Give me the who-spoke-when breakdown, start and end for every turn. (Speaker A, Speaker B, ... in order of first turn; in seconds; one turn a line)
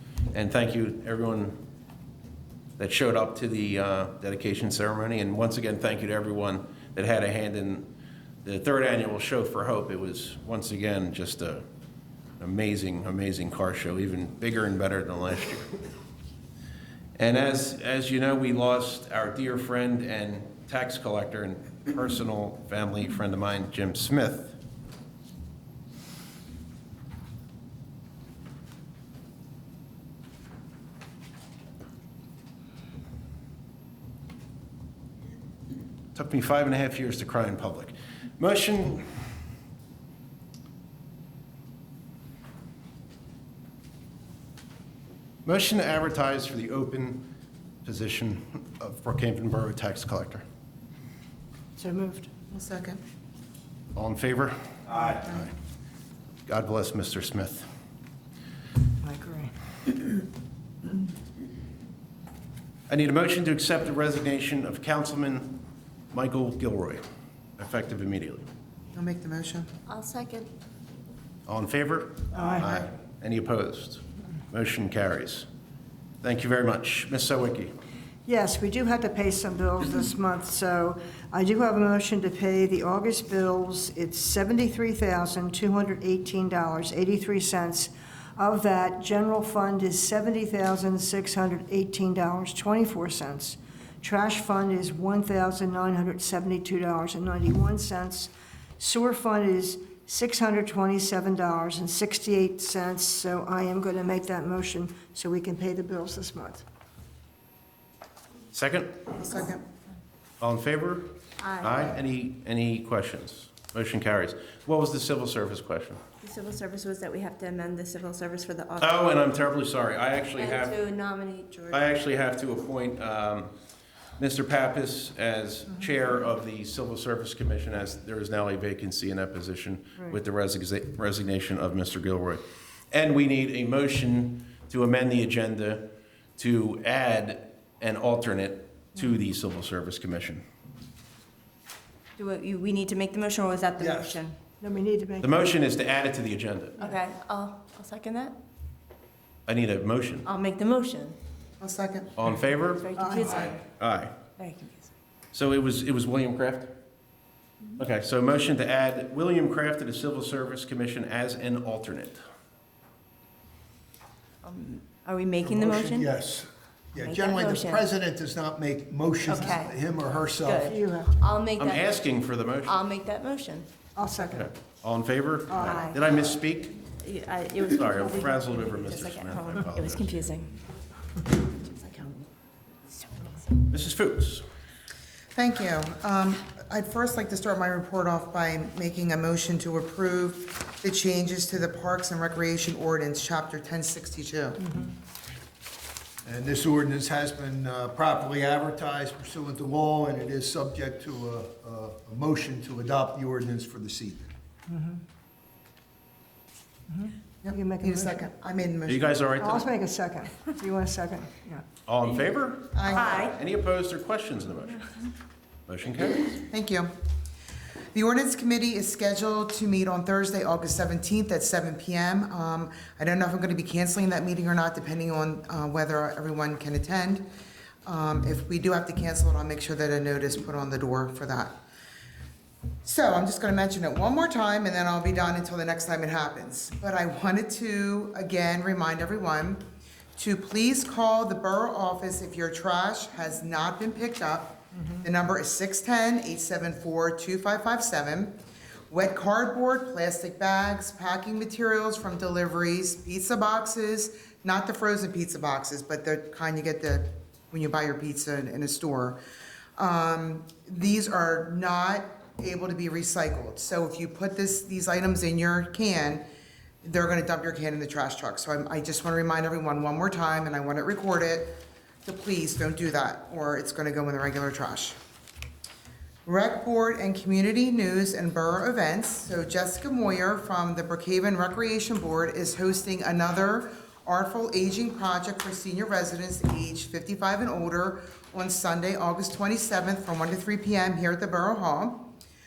Speaker A: 0.3-1.6
Speaker A: 2.8-7.9
Speaker A: 8.4-11.6
Speaker A: 12.4-15.7
Speaker A: 17.2-24.6
Speaker A: 36.1-39.1
Speaker A: 45.5-47.2
Speaker A: 47.8-50.4
Speaker B: 51.8-52.3
Speaker C: 52.5-53.0
Speaker A: 54.0-55.5
Speaker D: 55.0-55.2
Speaker A: 56.5-57.7
Speaker B: 59.0-59.5
Speaker A: 62.9-65.6
Speaker A: 66.1-67.0
Speaker A: 67.6-68.5
Speaker C: 69.0-69.7
Speaker E: 69.9-70.5
Speaker A: 71.5-75.5
Speaker B: 72.3-72.7
Speaker A: 76.2-77.7
Speaker B: 78.3-106.7
Speaker A: 108.5-109.1
Speaker A: 110.4-116.0
Speaker E: 111.4-111.9
Speaker E: 116.2-119.0
Speaker A: 118.8-120.8
Speaker E: 120.4-121.9
Speaker A: 121.7-123.5
Speaker A: 124.2-132.4
Speaker A: 132.9-135.8
Speaker A: 136.4-140.4
Speaker E: 142.2-144.3
Speaker D: 143.8-144.2
Speaker B: 144.6-145.3
Speaker A: 145.2-146.9
Speaker E: 146.8-148.4
Speaker A: 149.5-150.3
Speaker E: 150.2-151.2
Speaker C: 151.6-152.1
Speaker A: 152.2-152.9
Speaker E: 152.8-153.6
Speaker B: 153.0-153.3
Speaker A: 153.4-154.2
Speaker E: 154.4-154.9
Speaker A: 155.3-156.7
Speaker A: 157.8-162.2
Speaker E: 164.4-166.1
Speaker D: 165.4-170.7
Speaker E: 167.0-167.8
Speaker E: 169.3-169.8
Speaker E: 170.4-172.1
Speaker B: 170.7-171.1
Speaker A: 171.6-172.8
Speaker E: 172.6-173.7
Speaker B: 174.0-174.5
Speaker A: 174.2-176.8
Speaker B: 175.5-175.9
Speaker E: 175.6-176.0
Speaker E: 177.0-180.5
Speaker A: 177.7-180.2
Speaker E: 181.4-182.3
Speaker A: 183.7-184.4
Speaker C: 185.3-194.6
Speaker D: 196.2-204.3
Speaker B: 207.0-208.2
Speaker C: 207.4-209.0
Speaker A: 208.9-209.7
Speaker B: 209.4-211.6
Speaker A: 211.9-214.9
Speaker C: 212.8-213.2
Speaker E: 212.9-213.4
Speaker A: 215.7-216.3
Speaker C: 216.5-216.9
Speaker C: 217.9-227.2
Speaker C: 227.9-231.5
Speaker C: 232.8-239.6
Speaker C: 240.2-248.3
Speaker C: 248.9-259.2
Speaker C: 259.8-266.2
Speaker C: 266.8-271.5
Speaker C: 272.1-275.0
Speaker C: 276.3-292.0